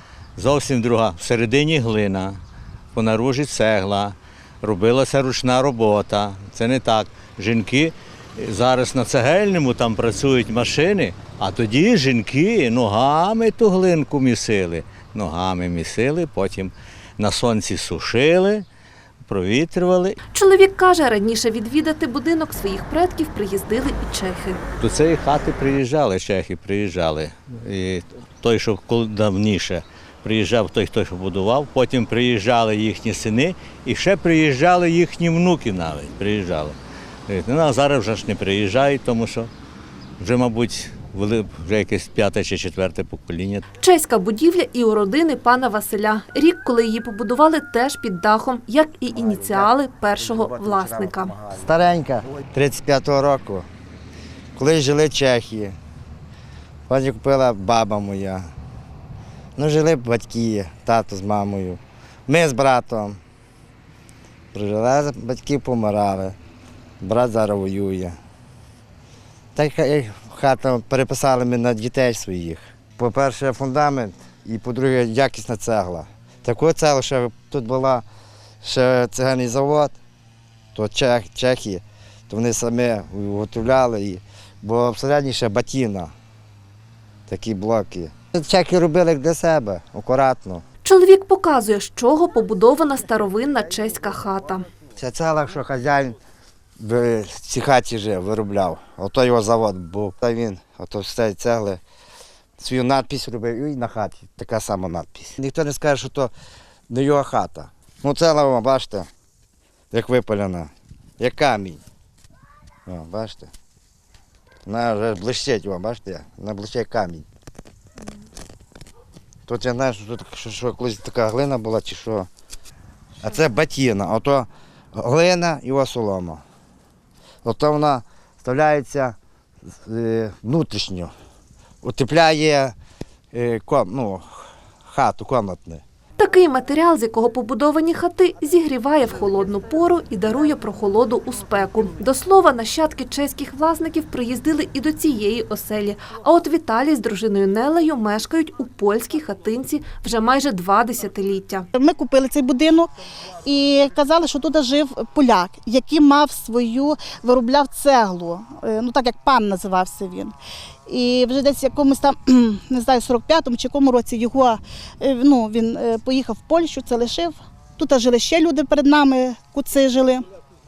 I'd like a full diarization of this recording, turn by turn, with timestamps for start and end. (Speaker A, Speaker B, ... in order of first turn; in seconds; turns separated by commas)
Speaker A: 0.4-2.4, Speaker A: 2.9-18.6, Speaker A: 19.2-20.2, Speaker B: 20.3-24.6, Speaker A: 24.8-36.8, Speaker A: 37.3-39.5, Speaker A: 40.2-43.6, Speaker B: 43.8-51.4, Speaker C: 49.2-49.7, Speaker C: 50.3-53.7, Speaker C: 54.5-55.7, Speaker C: 56.9-58.5, Speaker C: 59.5-63.2, Speaker C: 64.5-66.4, Speaker C: 67.0-68.2, Speaker C: 69.5-78.0, Speaker C: 78.6-80.0, Speaker C: 80.7-86.1, Speaker C: 87.3-90.6, Speaker B: 90.8-94.7, Speaker C: 95.0-96.2, Speaker C: 96.8-101.8, Speaker C: 102.6-106.3, Speaker C: 106.9-109.1, Speaker C: 109.9-111.8, Speaker C: 112.8-113.5, Speaker C: 114.7-117.2, Speaker C: 119.5-122.3, Speaker C: 123.2-126.4, Speaker C: 127.4-129.2, Speaker C: 129.7-131.1, Speaker C: 131.8-132.7, Speaker C: 133.3-135.8, Speaker B: 136.2-151.7, Speaker D: 151.7-152.9, Speaker D: 153.4-160.3, Speaker D: 160.8-170.2